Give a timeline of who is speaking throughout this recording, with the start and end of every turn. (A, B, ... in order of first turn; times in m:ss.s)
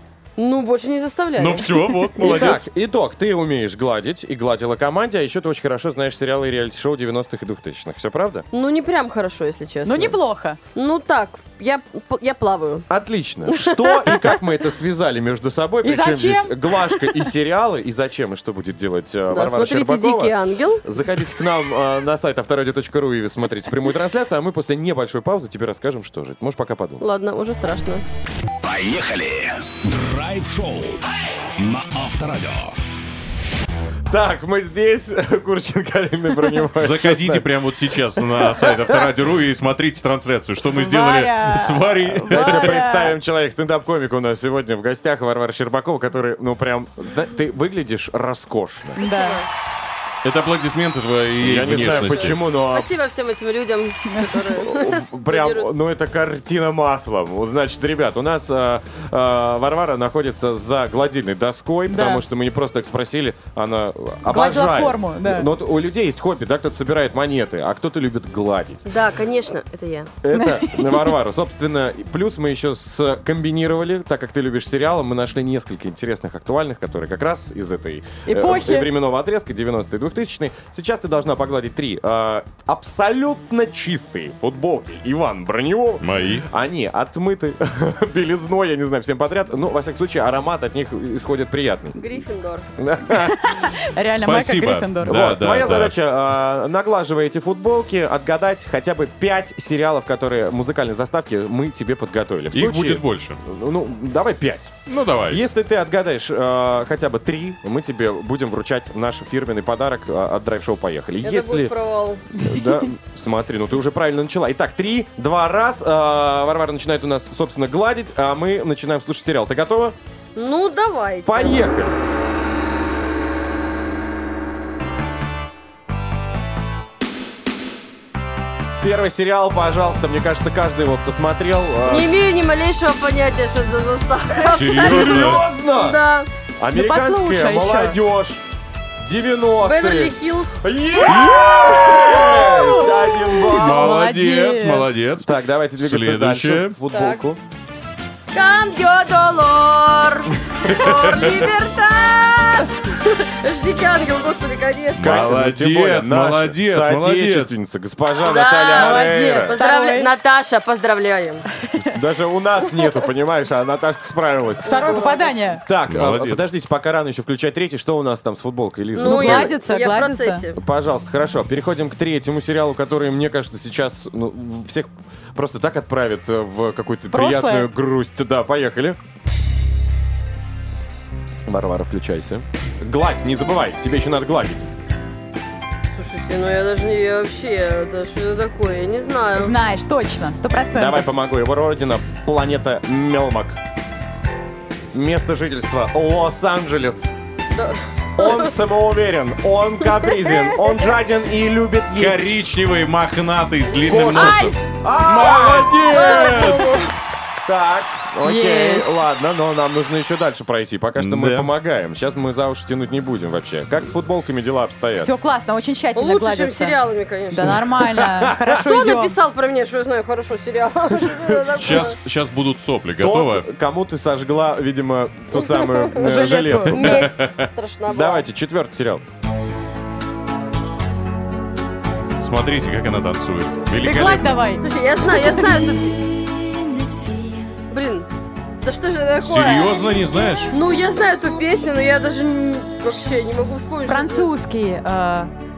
0:00.4-0:01.8 A
0:01.4-0:02.6 B
0:02.2-0:08.4 C
0:08.5-0:10.2 A
0:09.8-0:10.6 D
0:10.7-0:12.9 A
0:12.9-0:27.0 C
0:13.5-0:14.4 A
0:15.8-0:17.1 D
0:19.3-0:20.8 A
0:27.0-0:28.0 A
0:28.6-0:31.0 E
0:31.6-0:32.8 E
0:34.1-0:37.5 C
0:36.8-0:42.7 B
0:38.2-0:39.0 C
0:40.7-0:43.1 D
0:42.3-0:49.0 C
0:49.0-0:49.4 D
0:49.0-0:49.5 A
0:50.2-0:52.4 B
0:51.4-0:52.9 C
0:51.7-0:55.7 A
0:54.1-0:54.4 D
0:54.5-1:08.9 C
1:01.9-1:02.2 D
1:04.3-1:05.5 D
1:08.8-1:10.1 A
1:10.2-1:32.0 C
1:10.3-1:11.1 D
1:18.2-1:18.9 D
1:26.0-1:26.4 B
1:31.9-1:32.7 A
1:32.8-1:33.5 C
1:33.2-1:35.1 D
1:34.1-1:36.0 B
1:35.0-1:44.8 C
1:42.5-1:43.4 B
1:44.9-1:45.4 B
1:45.3-1:51.7 C
1:51.2-1:52.3 A
1:52.4-2:00.0 C
2:00.4-2:01.6 A
2:01.2-2:02.0 C
2:08.8-2:12.1 C
2:11.8-2:16.3 A
2:14.5-2:15.4 B
2:14.6-2:16.0 C
2:16.6-2:18.4 C
2:16.7-2:18.0 D
2:19.0-2:23.9 C
2:19.6-2:20.6 A
2:21.3-2:24.9 D
2:23.5-2:26.8 B
2:25.2-2:27.4 C
2:26.9-2:27.2 A
2:28.3-2:35.4 A
2:30.7-2:31.4 B
2:34.9-2:37.5 B
2:35.0-2:39.6 C
2:38.2-2:41.4 A
2:38.7-2:40.1 D
2:41.9-2:45.0 C
2:44.6-2:45.5 A
2:44.6-2:45.6 D
2:45.6-2:49.6 C
2:45.9-2:46.4 B
2:48.9-2:50.6 A
2:49.0-2:50.4 D
2:50.6-2:59.0 C
2:57.1-2:57.7 D
3:01.5-3:04.7 C
3:05.9-3:09.5 A
3:09.4-3:11.1 D
3:10.7-3:13.6 C
3:14.9-3:17.1 C
3:17.5-3:18.5 A
3:18.2-3:22.4 C
3:19.8-3:20.9 A
3:21.9-3:26.8 B
3:23.8-3:26.7 C
3:23.9-3:24.6 A
3:25.2-3:26.9 A
3:27.4-3:35.1 C
3:28.2-3:29.0 D
3:31.0-3:31.5 B
3:35.0-3:36.8 D
3:36.0-3:37.6 A
3:37.3-3:39.1 D
3:37.4-3:38.6 C
3:38.6-3:42.0 A
3:40.9-3:41.9 C
3:41.6-3:43.5 B
3:43.0-3:47.2 C
3:45.3-3:46.0 A
3:46.0-3:46.8 D
3:46.7-3:48.2 A
3:46.8-3:47.3 B
3:47.9-3:49.0 C
3:52.2-3:54.4 B
3:53.8-3:54.7 D
3:54.6-3:56.1 A
3:57.7-3:58.1 A
3:58.6-3:59.9 A
3:59.2-4:00.5 B
4:00.5-4:04.3 A
4:03.9-4:05.3 D